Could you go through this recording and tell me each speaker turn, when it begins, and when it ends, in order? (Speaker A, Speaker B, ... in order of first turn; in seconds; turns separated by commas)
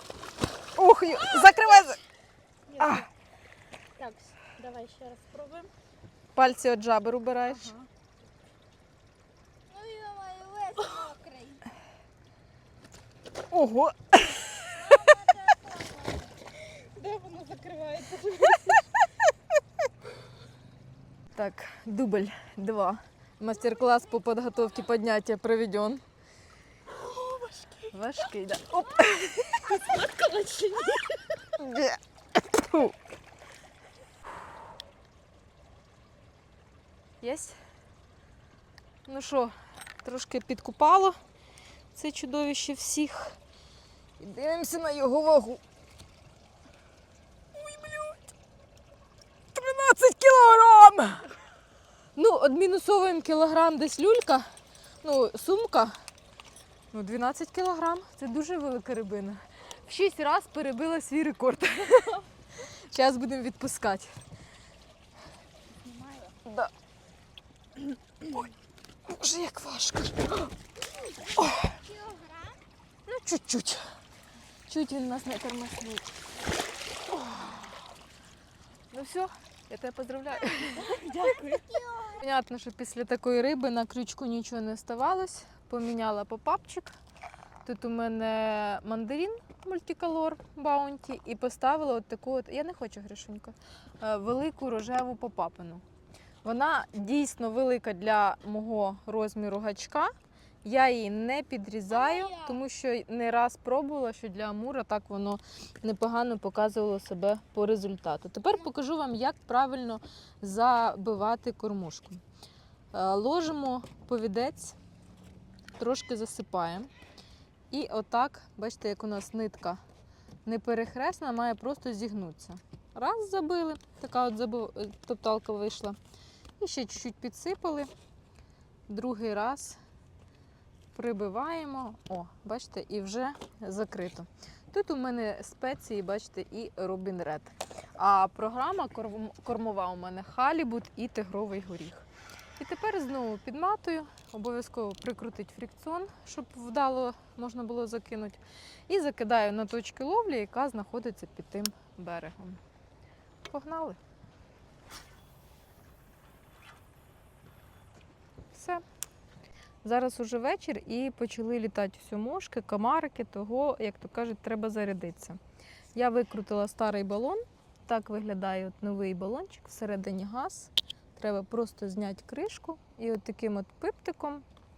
Speaker A: 0.7-2.0, Speaker B: 1.4-1.7, Speaker C: 2.7-3.0, Speaker A: 2.8-3.1, Speaker B: 4.0-5.7, Speaker C: 4.7-5.7, Speaker A: 6.3-7.8, Speaker B: 9.7-11.7, Speaker A: 13.5-15.1, Speaker B: 14.8-16.3, Speaker C: 16.6-18.9, Speaker A: 21.3-26.0, Speaker C: 27.0-27.9, Speaker A: 27.9-29.9, Speaker C: 29.6-31.4, Speaker A: 31.5-33.0, Speaker A: 37.2-37.6, Speaker A: 39.1-41.2, Speaker A: 41.9-43.4, Speaker A: 44.2-45.6, Speaker A: 47.5-48.3, Speaker A: 49.5-51.4, Speaker A: 52.2-54.5, Speaker A: 55.0-56.0, Speaker A: 56.9-64.1, Speaker A: 66.5-66.7, Speaker A: 67.8-68.5, Speaker A: 69.1-70.5, Speaker A: 71.2-71.8, Speaker B: 71.4-72.6, Speaker A: 73.1-73.8, Speaker A: 74.7-76.2, Speaker A: 77.1-77.6, Speaker A: 78.9-81.4, Speaker B: 80.8-82.2, Speaker C: 81.3-81.8, Speaker A: 82.1-87.0, Speaker A: 87.6-95.8, Speaker A: 96.4-100.1, Speaker A: 100.6-112.2, Speaker A: 112.9-114.8, Speaker A: 115.8-116.9, Speaker A: 117.7-119.8, Speaker A: 120.5-126.0, Speaker A: 126.6-127.9, Speaker A: 128.9-129.8, Speaker A: 130.9-142.1, Speaker A: 142.6-152.6, Speaker A: 153.5-154.0, Speaker A: 158.5-158.8, Speaker A: 159.8-165.4, Speaker A: 165.9-174.5